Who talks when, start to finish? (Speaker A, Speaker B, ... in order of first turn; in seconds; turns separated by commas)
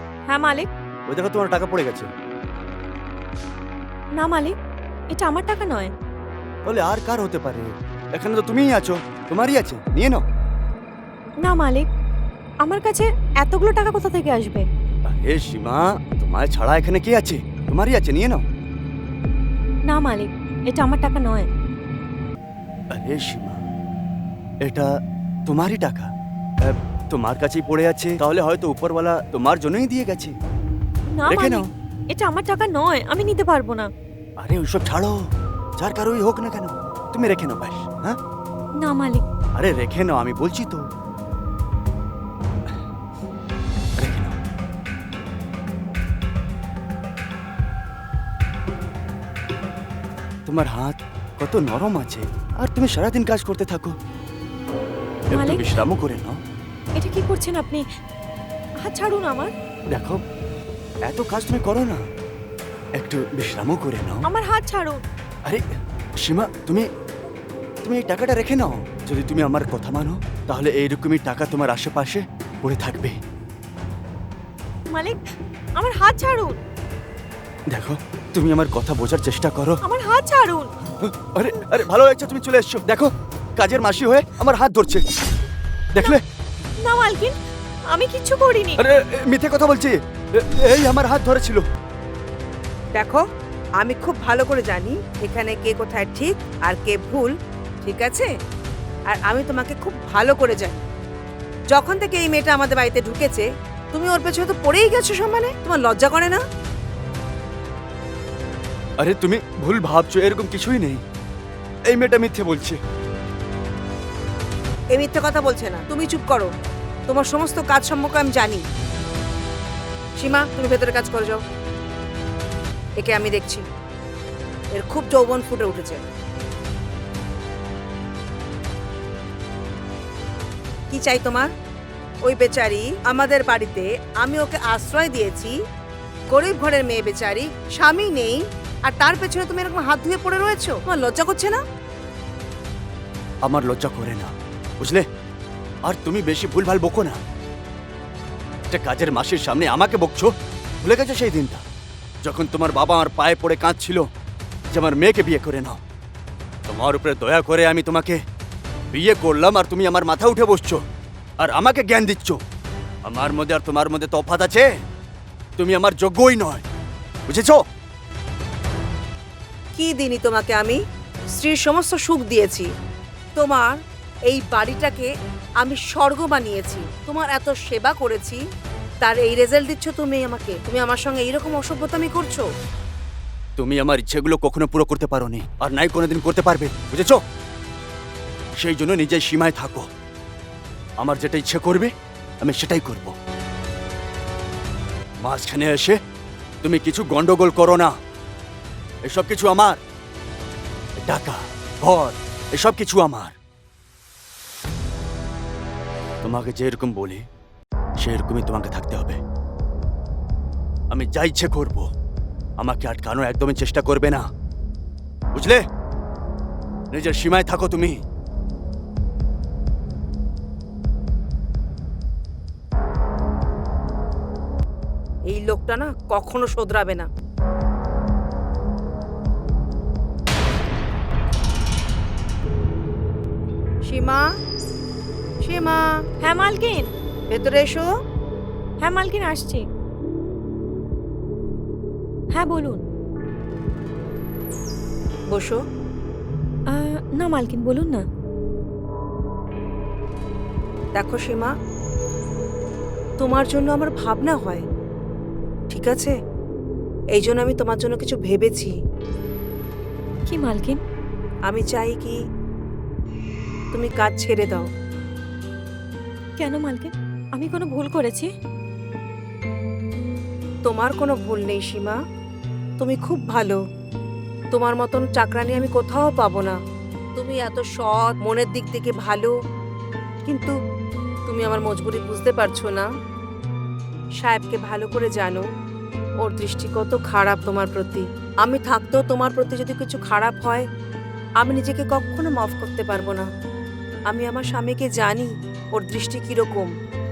Speaker A: 0.3-0.7, Speaker B: 1.1-2.1, Speaker A: 4.2-4.5, Speaker A: 5.1-5.9, Speaker B: 6.6-10.2, Speaker A: 11.4-11.9, Speaker A: 12.6-14.7, Speaker B: 15.0-18.4, Speaker A: 19.9-21.5, Speaker B: 22.9-23.6, Speaker B: 24.6-24.9, Speaker B: 25.5-26.1, Speaker B: 26.6-30.3, Speaker A: 31.1-33.9, Speaker B: 31.3-31.6, Speaker B: 34.4-35.2, Speaker B: 35.8-38.2, Speaker A: 38.8-39.2, Speaker B: 39.5-40.8, Speaker B: 44.0-44.4, Speaker B: 50.5-54.0, Speaker B: 55.3-56.4, Speaker A: 55.3-55.7, Speaker A: 57.0-57.8, Speaker A: 58.8-59.5, Speaker B: 59.9-60.2, Speaker B: 61.1-62.0, Speaker B: 63.0-64.2, Speaker A: 64.2-65.0, Speaker B: 66.2-66.9, Speaker B: 67.8-73.2, Speaker A: 74.9-76.6, Speaker B: 77.7-79.8, Speaker A: 79.8-80.7, Speaker B: 81.0-85.0, Speaker B: 85.9-86.2, Speaker A: 86.8-87.3, Speaker A: 87.9-88.8, Speaker B: 88.8-91.6, Speaker C: 92.9-93.2, Speaker C: 93.8-97.3, Speaker C: 97.8-98.3, Speaker C: 99.1-100.8, Speaker C: 101.7-106.4, Speaker B: 109.0-111.0, Speaker B: 111.9-112.8, Speaker C: 114.9-116.5, Speaker C: 117.1-118.6, Speaker C: 120.2-121.4, Speaker C: 123.0-123.6, Speaker C: 124.7-126.0, Speaker C: 130.9-131.5, Speaker C: 132.2-135.5, Speaker C: 136.3-141.6, Speaker B: 143.4-145.0, Speaker B: 145.8-147.2, Speaker B: 148.7-151.6, Speaker B: 152.2-154.1, Speaker B: 154.7-155.8, Speaker B: 156.7-158.2, Speaker B: 158.9-160.8, Speaker B: 161.4-162.4, Speaker B: 163.0-164.7, Speaker B: 165.6-166.7, Speaker B: 167.3-167.6, Speaker C: 169.8-170.8, Speaker C: 171.3-172.7, Speaker C: 173.3-175.1, Speaker C: 175.6-178.4, Speaker C: 179.0-182.4, Speaker B: 183.6-187.2, Speaker B: 188.6-189.9, Speaker B: 191.0-193.1, Speaker B: 195.2-196.0, Speaker B: 196.6-197.9, Speaker B: 199.0-199.8, Speaker B: 201.0-203.3, Speaker B: 206.2-207.2, Speaker B: 208.0-209.2, Speaker B: 210.9-211.9, Speaker B: 212.6-214.3, Speaker B: 215.3-215.6, Speaker B: 216.9-218.0, Speaker C: 225.3-227.1, Speaker C: 233.8-234.2, Speaker C: 235.4-236.0, Speaker A: 236.2-236.9, Speaker C: 237.3-237.9, Speaker A: 238.8-239.6, Speaker A: 242.3-242.8, Speaker C: 245.3-245.6, Speaker A: 246.7-248.0, Speaker C: 250.9-251.5, Speaker C: 253.2-254.6, Speaker C: 255.7-256.1, Speaker C: 257.1-258.7, Speaker A: 260.3-260.8, Speaker C: 261.5-262.2, Speaker C: 263.7-264.7, Speaker A: 266.4-268.3, Speaker C: 270.6-272.0, Speaker C: 272.8-273.6, Speaker C: 274.5-276.6, Speaker C: 277.1-279.3, Speaker C: 280.2-280.5, Speaker C: 281.3-282.9, Speaker C: 284.2-285.4, Speaker C: 286.2-290.6, Speaker C: 291.4-293.3, Speaker C: 294.1-296.7